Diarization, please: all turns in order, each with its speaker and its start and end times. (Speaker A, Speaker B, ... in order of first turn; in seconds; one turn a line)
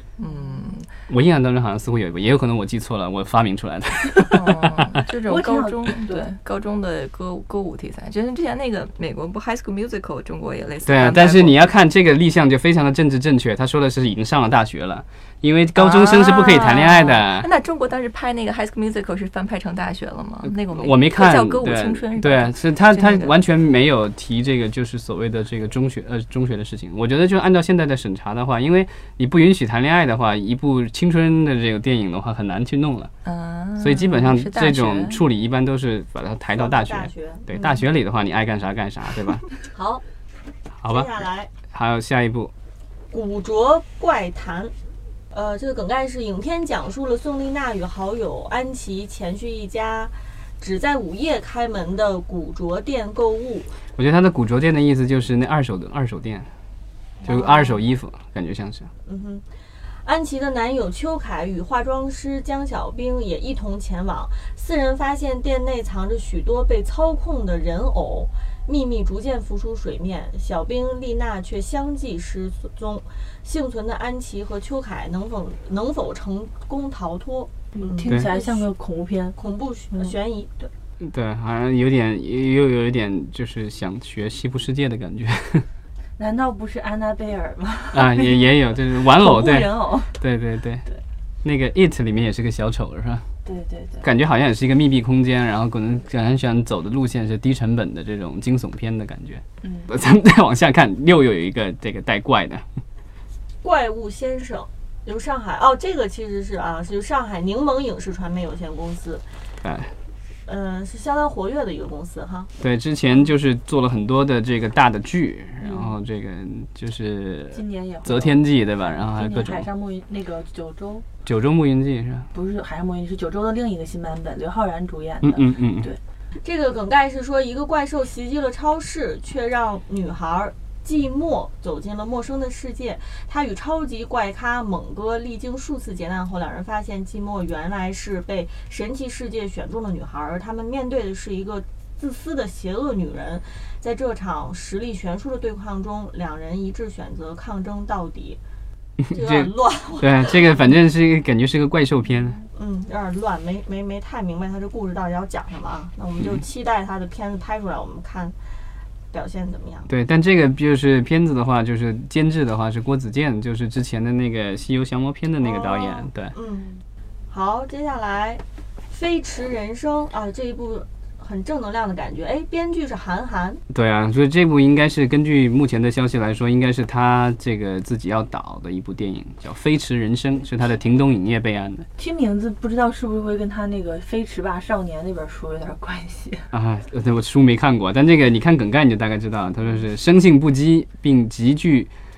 Speaker A: 0.2-0.9
Speaker B: 1.1-5.0
Speaker A: 4.2-11.6
Speaker C: 5.2-6.3
Speaker B: 10.8-17.5
Speaker A: 15.8-23.3
Speaker B: 20.4-33.1
Speaker A: 33.2-35.2
Speaker B: 33.8-39.4
Speaker D: 36.5-37.8
Speaker D: 39.6-40.0
Speaker B: 40.8-41.1
Speaker D: 40.8-41.5
Speaker B: 41.7-42.5
Speaker D: 43.1-44.7
Speaker D: 45.3-53.7
Speaker B: 54.0-56.5
Speaker B: 57.2-58.9
Speaker D: 57.3-57.8
Speaker D: 59.0-59.4
Speaker D: 60.0-78.7
Speaker C: 77.8-79.4
Speaker D: 79.4-80.7
Speaker B: 81.0-85.7
Speaker C: 86.2-88.4
Speaker B: 87.9-90.8
Speaker C: 89.0-90.2
Speaker B: 91.4-93.2
Speaker C: 93.4-94.1
Speaker B: 94.0-102.7
Speaker C: 99.6-99.9
Speaker D: 103.6-109.2
Speaker B: 109.6-109.9
Speaker D: 110.5-112.5
Speaker B: 112.6-119.7
Speaker C: 117.5-121.0
Speaker B: 121.2-122.3
Speaker C: 122.3-126.0
Speaker B: 125.2-125.9
Speaker D: 126.4-148.4
Speaker B: 149.0-152.4
Speaker D: 149.1-150.6
Speaker D: 152.5-158.3
Speaker D: 159.1-159.9
Speaker B: 159.9-166.3
Speaker D: 165.4-173.6
Speaker B: 173.7-181.8
Speaker C: 182.0-186.5
Speaker B: 186.5-191.9